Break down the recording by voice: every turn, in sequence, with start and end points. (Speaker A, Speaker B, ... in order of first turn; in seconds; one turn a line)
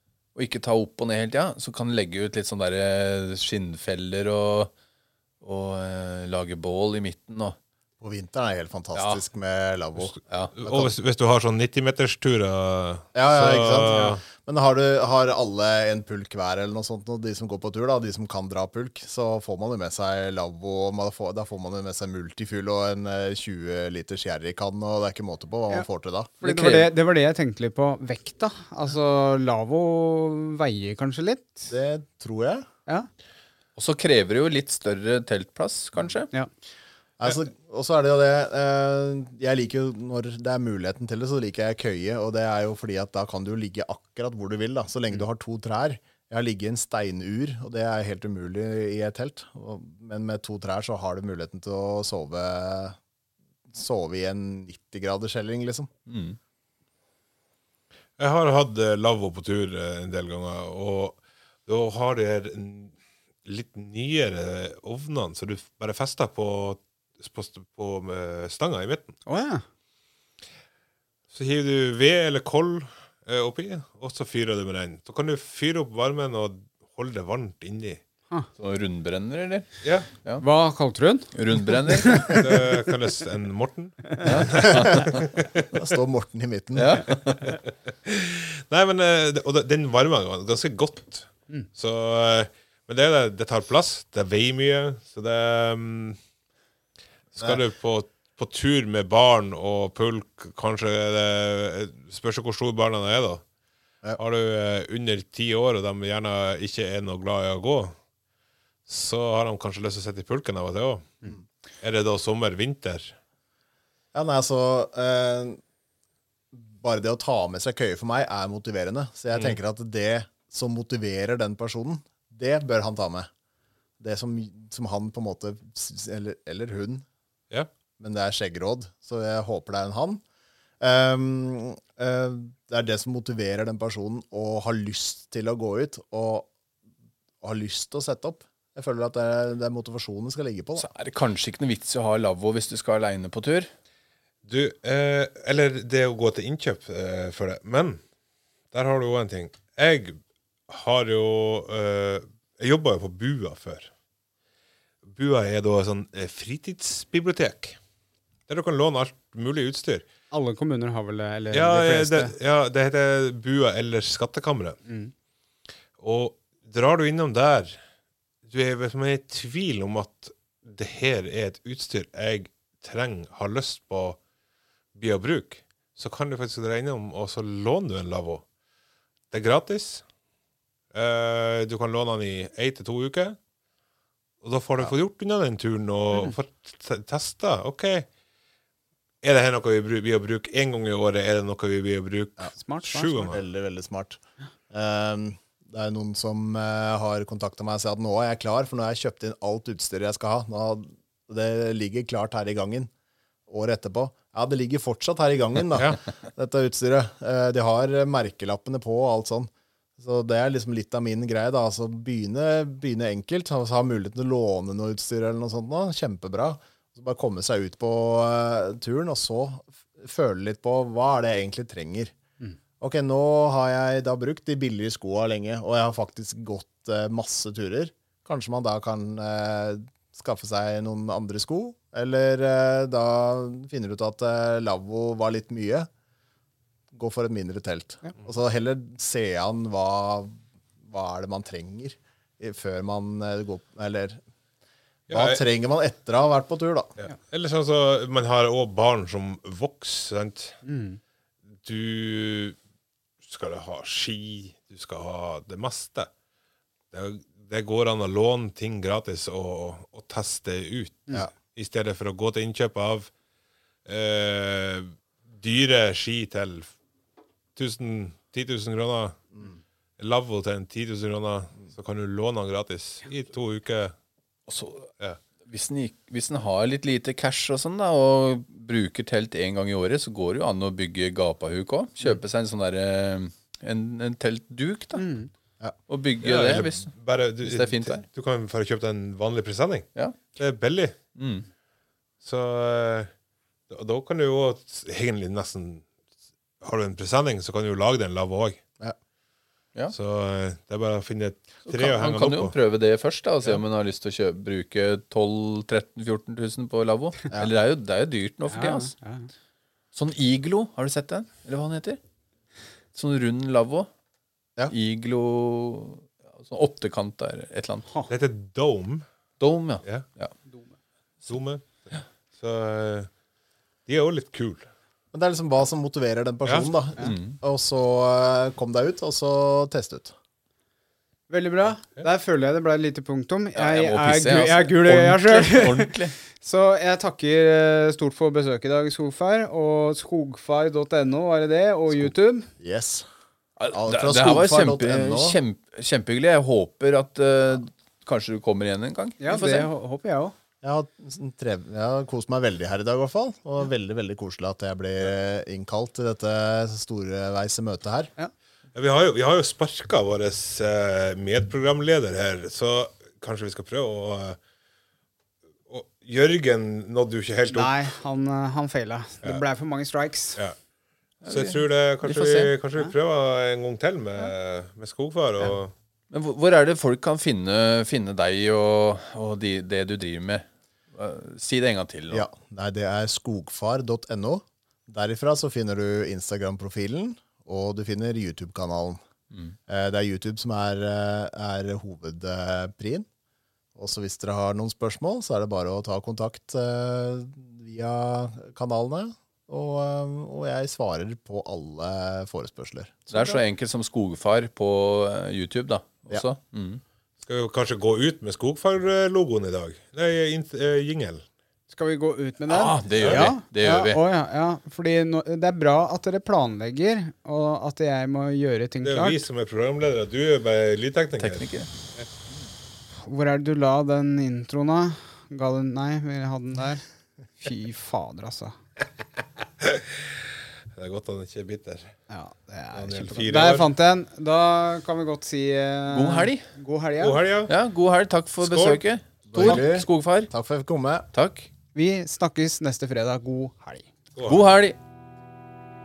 Speaker A: 0.3-4.7
Speaker A: 5.4-7.6
Speaker B: 8.0-10.9
Speaker A: 8.9-9.2
Speaker A: 10.3-10.5
Speaker C: 10.6-14.2
Speaker B: 13.1-26.3
Speaker D: 26.4-31.7
Speaker A: 26.4-26.9
Speaker B: 31.7-32.7
Speaker A: 33.8-36.3
Speaker B: 37.2-53.0
Speaker B: 53.7-55.9
Speaker A: 56.1-56.4
Speaker C: 58.2-62.9
Speaker C: 63.4-69.2
Speaker D: 69.2-69.6
Speaker C: 71.3-78.0
Speaker A: 78.6-80.4
Speaker C: 79.8-80.1
Speaker D: 80.4-82.4
Speaker A: 81.3-82.3
Speaker C: 82.3-85.6
Speaker A: 84.2-85.2
Speaker B: 84.6-87.0
Speaker A: 86.7-87.5
Speaker C: 88.0-96.2
Speaker C: 97.3-103.4
Speaker C: 104.2-108.0
Speaker C: 108.9-111.2
Speaker C: 111.8-113.1
Speaker B: 114.1-115.6
Speaker B: 116.5-123.3
Speaker C: 119.3-119.6
Speaker B: 124.0-127.0
Speaker B: 128.0-130.2
Speaker B: 130.8-136.5
Speaker B: 137.4-140.8
Speaker A: 140.8-143.7
Speaker C: 144.4-148.0
Speaker C: 148.7-150.2
Speaker C: 150.7-153.9
Speaker C: 155.1-157.8
Speaker C: 158.5-160.1
Speaker D: 160.3-162.3
Speaker C: 161.5-164.8
Speaker D: 164.9-165.1
Speaker C: 166.0-167.8
Speaker C: 168.4-174.2
Speaker C: 174.9-178.4
Speaker C: 179.3-180.0
Speaker C: 180.9-183.4
Speaker C: 184.4-188.1
Speaker C: 189.2-193.4
Speaker D: 192.6-193.4
Speaker B: 193.3-202.9
Speaker B: 203.5-222.1
Speaker C: 205.7-206.0
Speaker B: 222.8-235.9
Speaker B: 236.9-244.2
Speaker C: 245.1-245.4
Speaker B: 245.1-246.9
Speaker C: 247.0-250.6
Speaker D: 250.6-251.0
Speaker C: 251.6-252.6
Speaker C: 253.2-256.1
Speaker C: 256.9-263.1
Speaker C: 263.9-266.7
Speaker C: 267.6-269.3
Speaker C: 270.0-273.9
Speaker A: 274.5-274.9
Speaker A: 275.4-285.1
Speaker D: 284.9-285.3
Speaker A: 285.9-288.0
Speaker C: 286.2-290.9
Speaker A: 291.1-291.5
Speaker C: 292.2-293.1
Speaker C: 293.7-295.9
Speaker C: 296.6-298.6
Speaker C: 299.9-302.5
Speaker A: 301.6-308.9
Speaker D: 308.5-309.3
Speaker A: 309.9-312.0
Speaker A: 312.9-313.9
Speaker A: 314.7-317.9
Speaker C: 318.1-319.0
Speaker A: 319.4-320.3
Speaker C: 321.3-323.1
Speaker C: 323.9-324.7
Speaker B: 325.1-330.1
Speaker C: 326.4-326.7
Speaker A: 327.0-327.4
Speaker D: 331.3-342.5
Speaker A: 333.5-336.1
Speaker B: 341.9-343.1
Speaker A: 343.6-349.7
Speaker B: 343.7-345.4
Speaker D: 349.2-350.3
Speaker B: 350.6-358.1
Speaker C: 358.7-364.4
Speaker C: 365.7-367.8
Speaker D: 367.5-370.4
Speaker A: 371.2-372.5
Speaker C: 371.3-375.7
Speaker A: 376.1-382.3
Speaker B: 382.1-389.0
Speaker A: 389.3-389.6
Speaker B: 389.7-393.1
Speaker B: 393.7-403.1
Speaker D: 403.1-403.4
Speaker A: 403.1-406.8
Speaker C: 407.2-411.2
Speaker D: 411.7-419.2
Speaker A: 412.5-414.0
Speaker C: 412.9-413.2
Speaker C: 418.8-422.1
Speaker A: 421.2-421.7
Speaker D: 423.0-426.8
Speaker D: 427.4-428.6
Speaker C: 429.6-430.0
Speaker C: 430.7-431.9
Speaker D: 432.1-437.2
Speaker C: 432.7-433.7
Speaker A: 435.9-436.5
Speaker C: 437.0-437.5
Speaker A: 437.5-440.3
Speaker C: 438.4-438.8
Speaker B: 439.3-441.1
Speaker A: 441.1-441.5
Speaker D: 441.7-443.9
Speaker C: 444.1-444.4
Speaker A: 444.2-444.8